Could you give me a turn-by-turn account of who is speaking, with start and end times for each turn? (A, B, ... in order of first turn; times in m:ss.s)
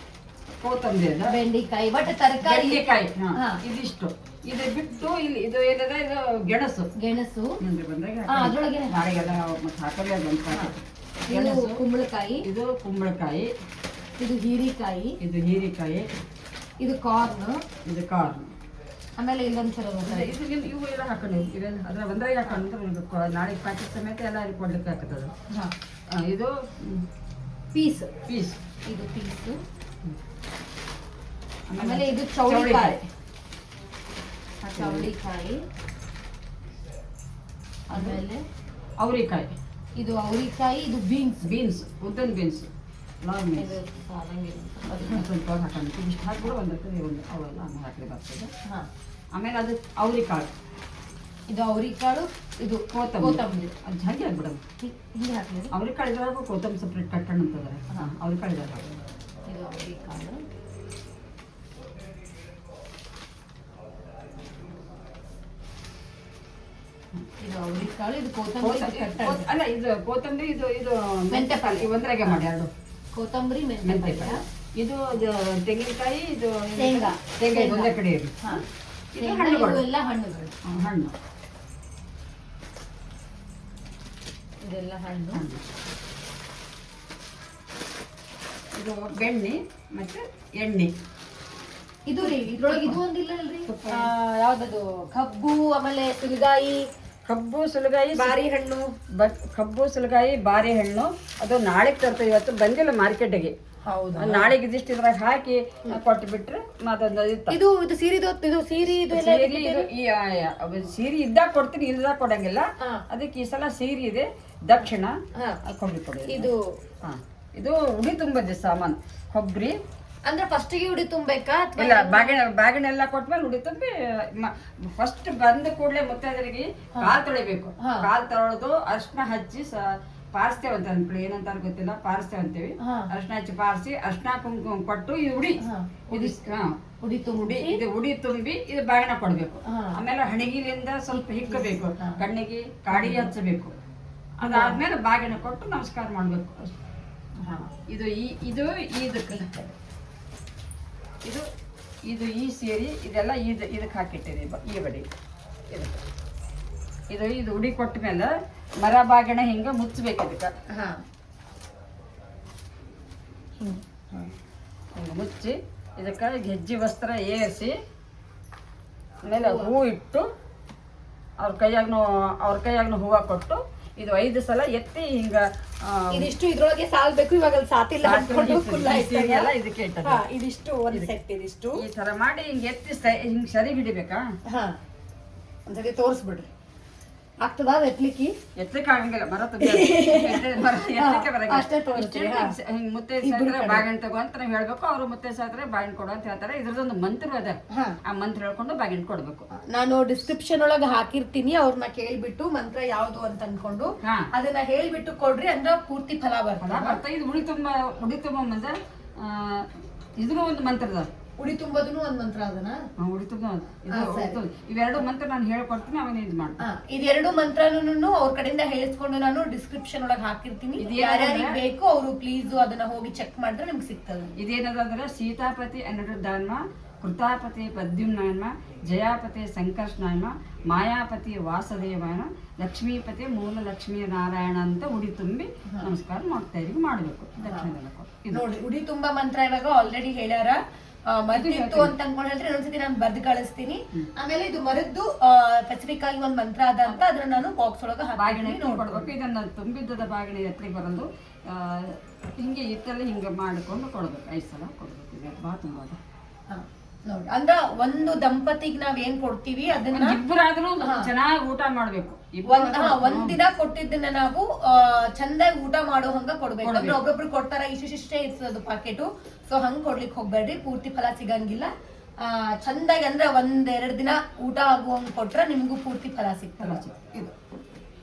0:00.6-0:01.4 A
0:01.2-0:03.6 B
0:02.4-0:06.9 A
0:07.0-0:07.6 B
0:07.6-0:11.8 A
0:08.2-0:09.0 B
0:11.3-0:12.5 B
0:12.4-0:13.5 A
0:14.2-0:15.2 B
0:15.2-0:16.1 A
0:16.8-0:17.6 B
0:17.9-0:18.5 A
0:19.2-0:20.4 B
0:20.0-0:25.3 A
0:26.1-0:27.0 A
0:27.7-0:28.1 B
0:28.3-0:28.6 A
0:28.9-0:29.6 B
0:31.7-0:33.0 A
0:31.8-0:33.1 B
0:34.6-0:35.6 B
0:34.8-0:35.1 A
0:37.9-0:38.2 A
0:37.9-0:38.4 B
0:39.0-0:39.5 A
0:40.0-0:41.5 B
0:41.4-0:42.7 A
0:43.2-0:43.8 A
0:43.6-0:45.3 B
0:44.9-0:48.5 A
0:49.3-0:50.5 A
0:51.5-0:53.7 B
0:52.9-0:54.6 A
0:54.8-0:55.7 B
0:55.7-0:58.9 A
0:59.4-1:00.4 B
1:07.4-1:09.5 B
1:08.6-1:12.7 A
1:11.3-1:12.4 B
1:13.1-1:14.4 B
1:13.8-1:18.6 A
1:16.7-1:18.6 B
1:19.1-1:19.8 A
1:19.2-1:20.5 B
1:20.7-1:21.1 A
1:24.6-1:25.4 B
1:25.3-1:25.6 A
1:28.7-1:30.9 A
1:32.1-1:36.8 B
1:32.2-1:33.0 A
1:33.7-1:34.1 A
1:37.2-1:38.4 A
1:38.1-1:38.9 B
1:39.1-1:43.6 A
1:43.9-1:44.5 B
1:44.2-1:47.6 A
1:47.5-1:49.9 B
1:48.8-1:56.5 A
1:55.3-1:55.6 B
1:56.2-1:56.7 B
1:57.0-1:59.8 A
2:00.3-2:02.4 B
2:01.8-2:16.8 A
2:07.8-2:08.1 B
2:12.8-2:13.1 B
2:15.6-2:16.5 B
2:17.0-2:17.8 B
2:17.4-2:23.8 A
2:19.6-2:20.0 B
2:21.2-2:22.2 B
2:22.9-2:23.3 B
2:24.4-2:26.7 A
2:24.4-2:24.8 B
2:27.4-2:27.7 B
2:27.9-2:29.7 A
2:32.1-2:35.1 A
2:35.7-2:36.0 A
2:37.1-2:40.5 A
2:40.7-2:41.0 B
2:43.6-2:44.3 B
2:45.0-2:47.7 A
2:49.2-2:50.3 A
2:49.3-2:49.7 B
2:51.4-2:56.3 A
2:56.1-3:01.8 B
2:58.0-3:00.2 A
3:01.8-3:04.3 A
3:04.5-3:04.8 B
3:05.7-3:06.5 B
3:07.4-3:08.3 B
3:08.6-3:19.5 A
3:09.6-3:12.6 B
3:13.2-3:13.8 B
3:17.7-3:18.0 B
3:19.7-3:27.0 B
3:24.0-3:24.3 A
3:26.6-3:31.1 A
3:31.4-3:32.8 B
3:33.0-3:36.6 A
3:33.9-3:34.4 B
3:36.6-3:44.3 B
3:40.8-3:41.6 A
3:44.4-3:58.5 A
3:57.4-3:57.8 B
3:58.3-4:00.6 B
4:01.1-4:09.1 B
4:01.3-4:02.0 A
4:08.2-4:16.0 A
4:16.5-4:20.2 B
4:19.9-4:23.4 A
4:20.8-4:21.1 B
4:22.4-4:31.7 B
4:26.6-4:27.0 A
4:32.2-4:36.8 B
4:36.6-4:37.3 A